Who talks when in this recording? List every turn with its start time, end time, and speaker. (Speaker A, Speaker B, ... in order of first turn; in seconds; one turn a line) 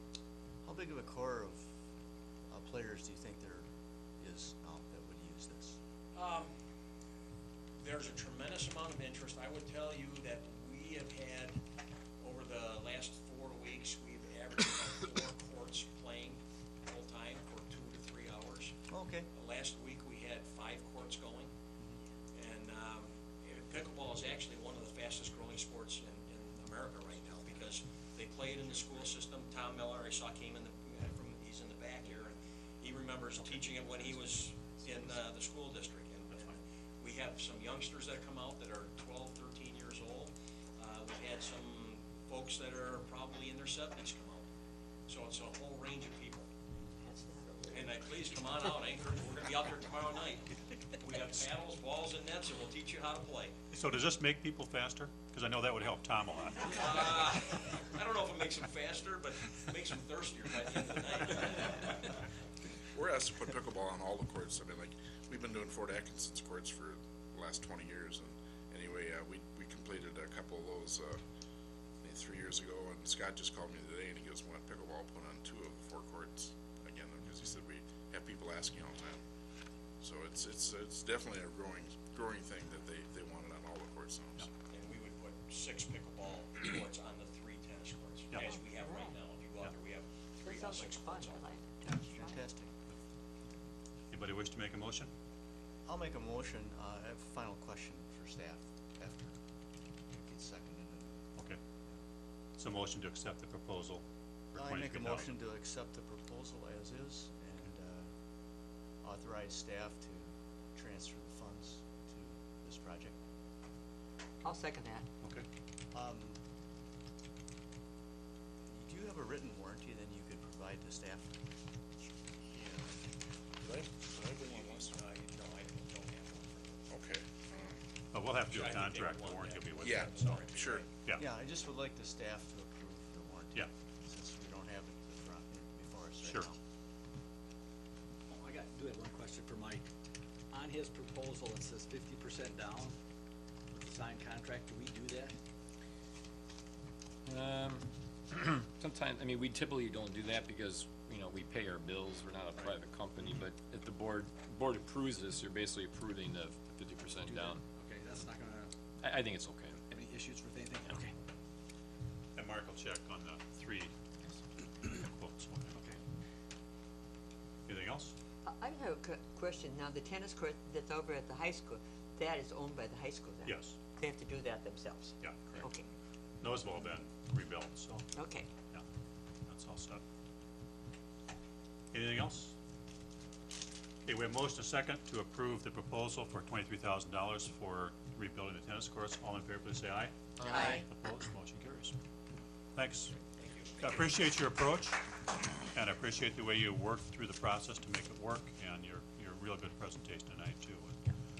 Speaker A: 0.6-1.7
Speaker A: 2.5-3.6
Speaker A: 4.2-5.8
Speaker B: 6.1-6.5
Speaker B: 7.8-11.6
Speaker B: 12.2-18.8
Speaker A: 18.9-19.3
Speaker B: 19.3-21.5
Speaker B: 22.3-44.5
Speaker B: 45.1-46.5
Speaker C: 47.1-47.8
Speaker B: 47.7-53.6
Speaker D: 53.7-56.9
Speaker B: 56.6-62.0
Speaker E: 62.9-71.2
Speaker E: 72.0-79.2
Speaker E: 80.0-84.4
Speaker B: 84.7-91.8
Speaker C: 90.4-92.4
Speaker A: 91.9-92.8
Speaker D: 94.1-95.1
Speaker A: 95.8-99.3
Speaker A: 100.1-101.2
Speaker D: 102.6-105.3
Speaker A: 104.5-108.1
Speaker A: 109.0-113.1
Speaker C: 114.4-115.0
Speaker F: 114.5-115.0
Speaker A: 115.9-116.4
Speaker A: 118.7-121.4
Speaker E: 123.6-124.9
Speaker B: 124.3-126.9
Speaker E: 126.9-127.8
Speaker D: 128.1-131.2
Speaker B: 128.5-130.9
Speaker E: 129.8-130.8
Speaker A: 131.1-136.6
Speaker D: 136.2-136.5
Speaker G: 138.3-139.8
Speaker G: 140.5-142.9
Speaker G: 143.7-145.4
Speaker C: 147.2-157.6
Speaker G: 157.2-158.7
Speaker C: 159.0-159.8
Speaker G: 159.9-161.1
Speaker D: 162.3-163.9
Speaker D: 164.8-165.8
Speaker G: 165.7-166.0
Speaker D: 167.7-168.1
Speaker F: 168.4-175.8
Speaker D: 173.4-173.8
Speaker D: 175.2-175.7
Speaker D: 176.4-178.1
Speaker F: 178.2-178.5
Speaker D: 179.5-180.0
Speaker D: 181.9-182.5
Speaker D: 184.1-191.9
Speaker C: 190.4-190.8
Speaker D: 192.7-193.1
Speaker B: 193.3-194.1
Speaker D: 193.8-195.0
Speaker D: 195.5-201.0